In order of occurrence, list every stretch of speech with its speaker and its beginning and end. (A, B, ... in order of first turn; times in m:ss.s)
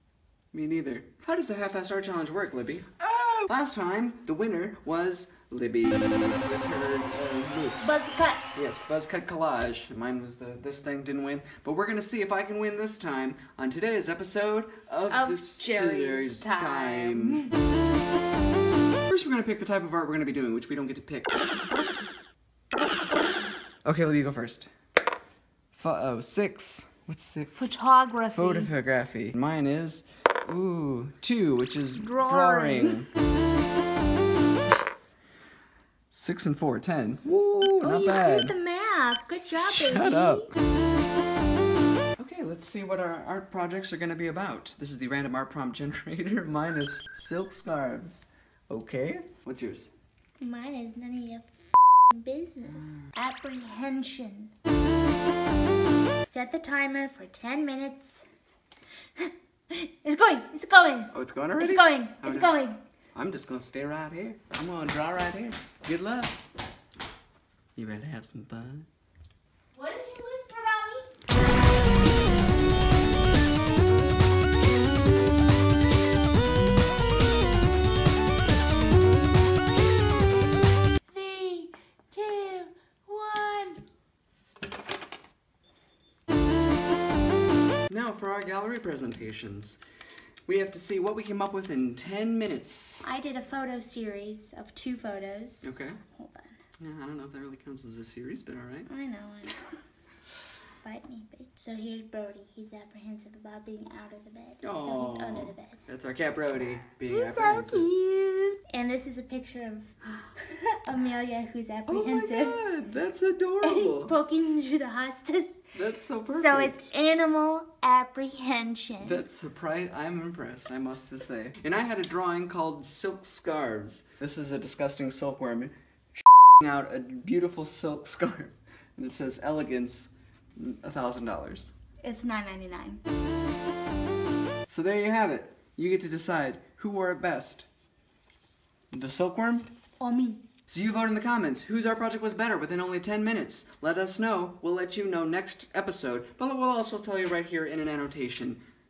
0:00.5-0:07.8 A
0:07.8-0:08.4 B
0:08.5-0:17.5 A
0:15.1-0:17.5 B
0:19.1-0:21.5 A
0:23.8-0:24.7 A
0:25.7-0:27.7 A
0:27.6-0:28.7 B
0:28.3-0:33.1 A
0:32.0-0:33.0 B
0:36.1-0:38.5 A
0:37.3-0:40.5 B
0:39.4-0:40.5 A
0:42.2-0:49.9 A
0:50.4-0:54.5 B
0:52.7-0:53.1 A
0:56.2-0:58.2 B
0:59.2-1:02.8 B
1:01.1-1:02.6 A
1:03.1-1:06.4 A
1:07.8-1:08.8 A
1:09.7-1:11.1 B
1:21.1-1:23.8 B
1:27.9-1:29.8 A
1:30.5-1:33.0 A
1:33.0-1:36.6 B
1:35.6-1:36.0 A
1:36.8-1:38.9 A
1:38.9-1:39.8 B
1:40.8-1:45.8 B
1:44.6-1:47.9 A
1:47.1-1:52.6 B
1:51.9-1:54.1 A
1:53.6-1:55.6 B
1:55.7-1:56.8 A
1:56.3-1:59.2 B
1:59.0-2:05.7 A
2:06.6-2:11.7 A
2:12.0-2:13.0 B
2:14.7-2:17.6 A
2:18.9-2:19.7 A
2:20.0-2:20.4 B
2:20.7-2:28.6 A